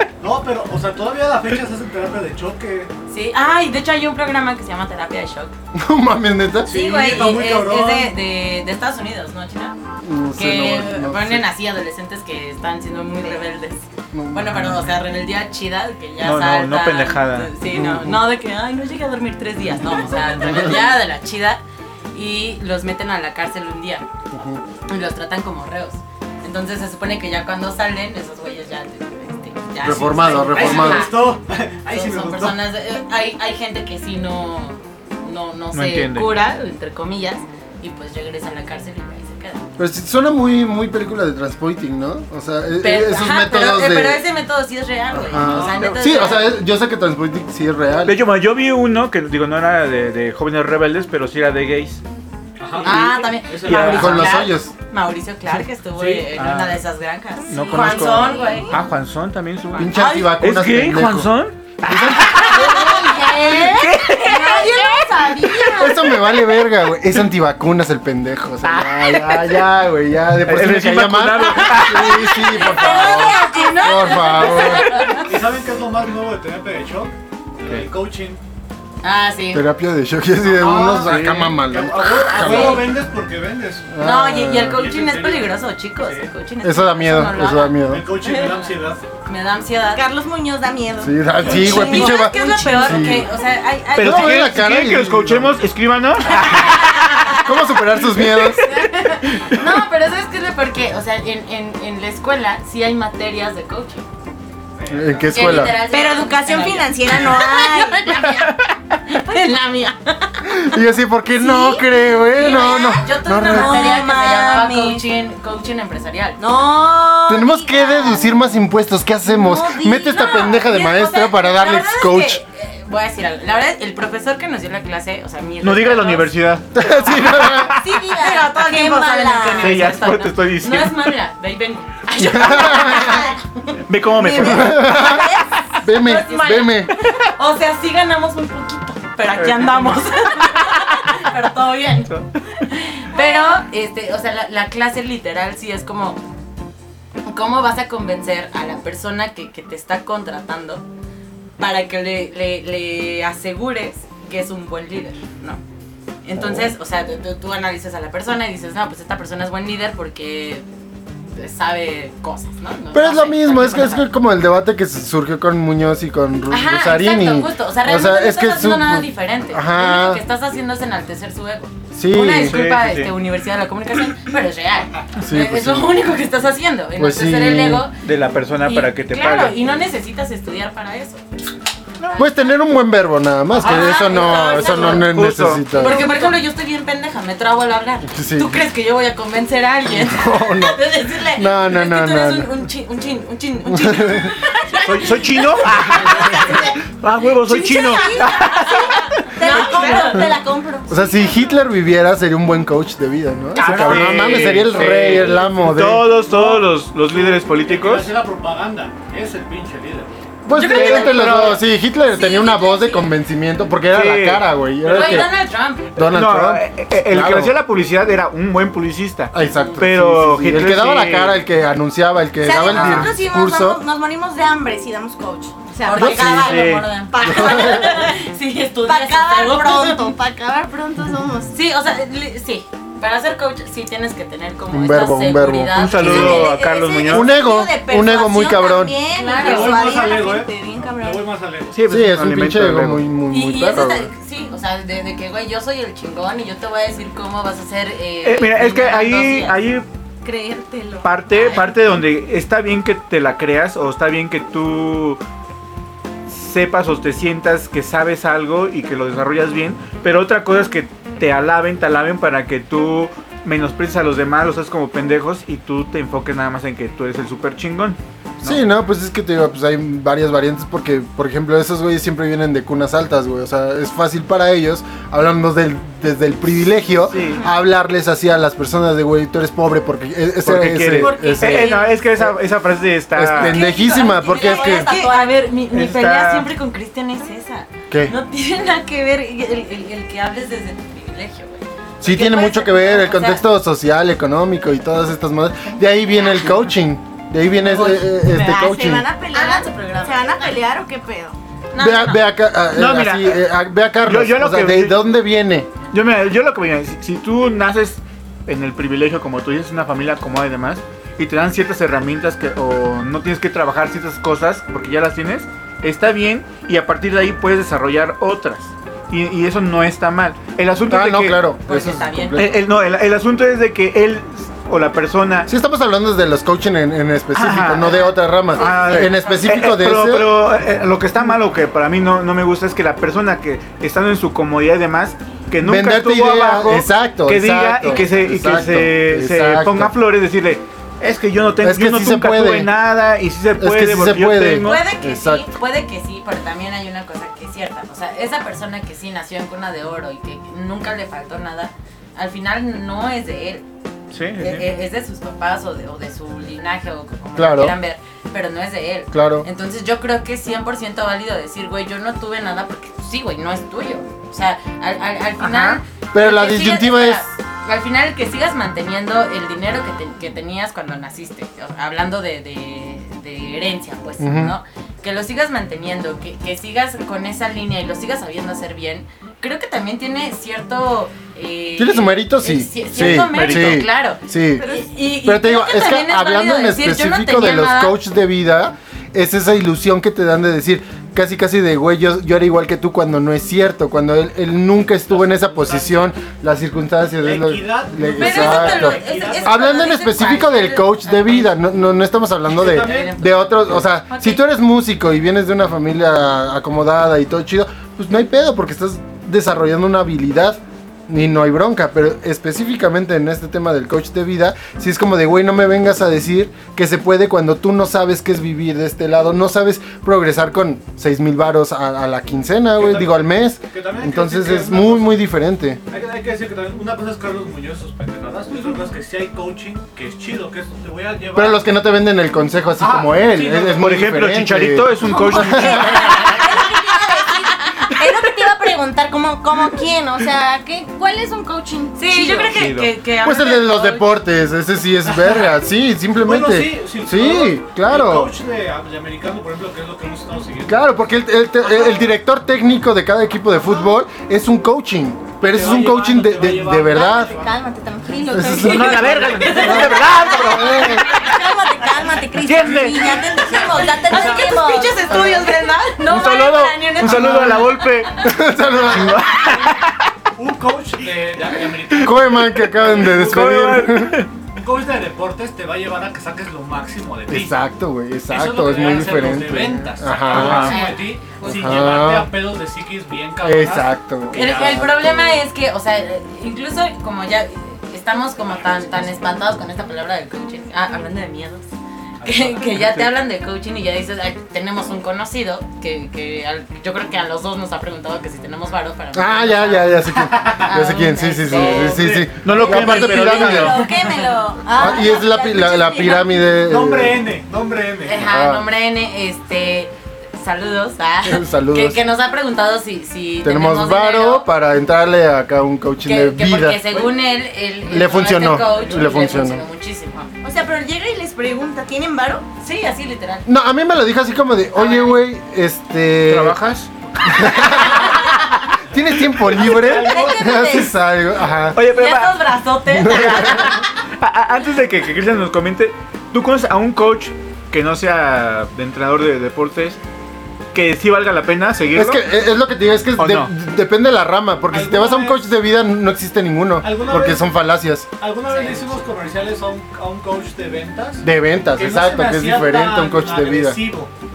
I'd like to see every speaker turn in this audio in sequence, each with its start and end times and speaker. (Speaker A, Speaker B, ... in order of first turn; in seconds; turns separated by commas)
Speaker A: 0.2-2.9, Speaker B: 3.1-5.5, Speaker C: 5.7-6.7, Speaker A: 6.6-8.1, Speaker B: 6.7-9.7, Speaker C: 10.0-11.5, Speaker B: 10.3-21.6, Speaker C: 14.1-14.8, Speaker D: 16.2-17.5, Speaker C: 17.7-18.2, Speaker C: 20.3-20.9, Speaker B: 22.1-24.1, Speaker C: 24.3-24.6, Speaker B: 24.9-39.7, Speaker C: 29.8-31.1, Speaker A: 30.5-32.6, Speaker D: 35.7-36.3, Speaker C: 39.8-44.2, Speaker B: 42.8-46.6, Speaker C: 45.1-48.2, Speaker A: 45.5-45.8, Speaker D: 45.8-46.2, Speaker D: 48.0-52.0, Speaker A: 52.6-54.1, Speaker D: 52.8-54.4, Speaker B: 52.8-58.8, Speaker C: 53.9-54.7, Speaker D: 55.5-56.8, Speaker A: 56.0-56.2, Speaker D: 57.5-64.6, Speaker E: 57.6-58.8, Speaker C: 59.8-63.5, Speaker B: 59.8-60.4, Speaker E: 62.5-66.2, Speaker B: 62.9-65.8, Speaker C: 65.8-75.1, Speaker D: 68.6-69.5, Speaker D: 70.4-72.4, Speaker B: 71.8-75.3, Speaker E: 72.4-75.2, Speaker A: 75.1-78.4, Speaker B: 79.0-79.7, Speaker C: 79.5-82.9, Speaker A: 80.4-84.0, Speaker D: 80.9-81.6, Speaker B: 82.2-82.9, Speaker C: 83.9-84.8, Speaker B: 84.0-87.8, Speaker A: 84.7-86.3, Speaker C: 86.6-88.1, Speaker A: 87.8-89.0, Speaker E: 88.2-88.6, Speaker B: 89.2-90.0, Speaker E: 89.9-93.1, Speaker C: 91.0-93.3, Speaker B: 91.4-94.5, Speaker D: 93.9-97.3, Speaker C: 94.0-95.6, Speaker B: 96.5-96.8, Speaker C: 97.4-98.6, Speaker B: 98.3-104.0, Speaker D: 99.3-99.6, Speaker A: 104.8-105.6, Speaker C: 104.9-105.8, Speaker B: 105.3-110.5, Speaker E: 105.8-108.2, Speaker D: 108.3-108.7, Speaker C: 110.5-114.1, Speaker E: 111.3-111.9, Speaker B: 112.3-116.4, Speaker E: 113.4-115.0, Speaker E: 116.4-118.3, Speaker C: 117.2-122.4, Speaker E: 119.2-120.5, Speaker B: 120.1-126.3, Speaker D: 125.6-127.8, Speaker C: 126.7-127.8, Speaker E: 127.7-129.8, Speaker B: 128.2-133.4, Speaker D: 129.6-131.1, Speaker C: 132.2-133.3, Speaker E: 132.9-133.4, Speaker D: 133.9-134.9, Speaker E: 134.1-135.8, Speaker C: 134.4-136.9, Speaker B: 135.9-142.1, Speaker D: 139.3-141.2, Speaker B: 142.7-146.2, Speaker E: 143.1-143.6, Speaker B: 147.2-150.8, Speaker B: 151.6-155.6, Speaker B: 156.2-160.6, Speaker C: 156.3-156.7, Speaker B: 161.3-164.1, Speaker C: 162.9-170.2, Speaker B: 166.5-177.9, Speaker C: 171.9-172.6, Speaker D: 172.4-173.1, Speaker C: 175.2-176.0, Speaker C: 177.0-177.9, Speaker D: 178.0-179.6, Speaker B: 178.6-181.2, Speaker B: 182.0-182.4, Speaker C: 182.2-186.1, Speaker A: 183.5-184.3, Speaker B: 183.6-185.1, Speaker D: 184.5-185.7, Speaker B: 185.7-196.7, Speaker C: 188.1-188.6, Speaker C: 189.8-192.5, Speaker C: 193.7-194.3, Speaker D: 194.8-199.0, Speaker E: 196.3-196.6, Speaker B: 197.5-200.3, Speaker E: 197.5-201.4, Speaker C: 200.9-206.1, Speaker D: 203.6-208.1, Speaker B: 203.6-204.0, Speaker A: 206.3-210.1, Speaker C: 210.4-215.3, Speaker B: 210.5-211.6, Speaker D: 210.7-211.6, Speaker B: 212.1-213.1, Speaker D: 213.9-214.5, Speaker B: 214.9-215.9, Speaker A: 214.9-215.2, Speaker C: 215.9-217.5, Speaker D: 215.9-221.4, Speaker C: 219.3-223.8, Speaker B: 219.6-219.8, Speaker E: 222.4-226.5, Speaker D: 222.7-223.1, Speaker B: 225.8-230.1, Speaker C: 225.9-226.7, Speaker D: 226.4-226.9, Speaker E: 227.1-228.2, Speaker C: 227.2-227.9, Speaker E: 228.8-231.5, Speaker B: 231.5-236.5, Speaker C: 234.7-236.4, Speaker D: 235.8-237.3, Speaker E: 236.0-241.2, Speaker C: 237.0-239.0, Speaker B: 239.1-239.9, Speaker A: 239.3-241.8, Speaker D: 241.7-243.0, Speaker C: 241.9-244.1, Speaker B: 243.3-249.6, Speaker D: 248.2-249.8, Speaker E: 250.2-251.1, Speaker D: 251.0-255.2, Speaker B: 251.3-251.7, Speaker D: 256.3-268.6, Speaker C: 268.4-282.4, Speaker D: 277.1-277.4, Speaker D: 280.4-283.6, Speaker B: 281.0-281.8, Speaker E: 281.0-281.8, Speaker C: 283.1-284.9, Speaker B: 283.4-293.4, Speaker E: 283.6-285.4, Speaker D: 285.7-286.5, Speaker C: 287.9-288.1, Speaker C: 292.0-299.1, Speaker B: 296.1-296.5, Speaker E: 297.6-301.4, Speaker B: 297.7-298.0, Speaker B: 299.3-300.6, Speaker B: 301.7-302.2, Speaker C: 301.8-305.7, Speaker D: 302.7-303.4, Speaker D: 304.0-305.0, Speaker D: 305.9-321.4, Speaker C: 320.9-322.6, Speaker B: 321.7-322.5, Speaker D: 322.4-325.5, Speaker C: 325.5-330.3, Speaker D: 327.3-344.8, Speaker B: 328.5-329.8, Speaker C: 335.6-339.9, Speaker C: 341.6-342.7, Speaker C: 343.6-345.5, Speaker B: 344.6-353.6, Speaker D: 354.1-354.7, Speaker B: 354.4-388.0, Speaker C: 357.4-357.8, Speaker C: 359.1-359.5, Speaker D: 365.4-365.8, Speaker C: 366.1-367.2, Speaker C: 374.2-374.6, Speaker C: 381.8-384.7, Speaker D: 382.9-383.9, Speaker E: 384.6-384.9, Speaker C: 385.2-425.8, Speaker A: 395.1-396.1, Speaker A: 397.2-399.9, Speaker B: 398.2-401.6, Speaker A: 402.5-403.1, Speaker B: 402.6-404.4, Speaker A: 422.8-425.2, Speaker A: 425.9-431.6, Speaker C: 431.3-436.2, Speaker A: 432.8-433.9, Speaker D: 433.8-436.3, Speaker E: 435.1-442.5, Speaker B: 435.9-436.4, Speaker B: 441.9-444.1, Speaker D: 442.5-442.9, Speaker C: 443.2-448.3, Speaker A: 446.2-450.9, Speaker C: 450.7-457.4, Speaker A: 455.4-457.5, Speaker E: 456.8-465.2, Speaker C: 458.3-461.1, Speaker D: 458.5-460.9, Speaker B: 459.3-460.4, Speaker D: 462.4-463.2, Speaker A: 463.5-464.6, Speaker B: 464.0-468.3, Speaker C: 465.1-465.4, Speaker D: 466.0-468.1, Speaker C: 468.2-469.3, Speaker D: 468.9-470.1, Speaker A: 470.4-473.6, Speaker C: 472.0-474.2, Speaker D: 472.9-474.3, Speaker A: 474.5-477.6, Speaker C: 477.3-480.8, Speaker A: 478.3-484.8, Speaker D: 480.3-480.8, Speaker B: 480.3-481.9, Speaker C: 481.4-482.3, Speaker C: 483.4-485.4, Speaker B: 484.3-491.6, Speaker A: 492.2-492.7, Speaker B: 492.2-500.1, Speaker D: 492.8-493.0, Speaker C: 499.1-503.8, Speaker A: 500.1-500.7, Speaker B: 500.6-502.1, Speaker A: 501.7-502.3, Speaker D: 502.4-503.8, Speaker E: 502.6-506.5, Speaker B: 502.9-504.3, Speaker C: 504.7-507.2, Speaker A: 506.7-508.2, Speaker B: 508.0-514.5, Speaker C: 508.1-508.7, Speaker C: 511.2-512.0, Speaker C: 513.4-517.0, Speaker B: 516.0-520.3, Speaker C: 517.9-519.6, Speaker A: 518.6-519.0, Speaker E: 520.4-522.4, Speaker B: 522.6-523.4, Speaker C: 523.5-526.6, Speaker B: 524.7-525.2, Speaker D: 526.2-526.9, Speaker C: 527.2-528.3, Speaker C: 528.9-531.8, Speaker E: 529.6-530.9, Speaker A: 529.6-530.4, Speaker D: 531.7-532.4, Speaker B: 531.8-533.8, Speaker C: 532.9-533.7, Speaker D: 533.0-540.0, Speaker D: 540.7-542.2, Speaker C: 541.9-548.1, Speaker D: 543.2-543.5, Speaker A: 544.7-545.4, Speaker A: 546.8-547.5, Speaker A: 548.2-554.1, Speaker B: 548.5-549.1, Speaker C: 551.2-553.8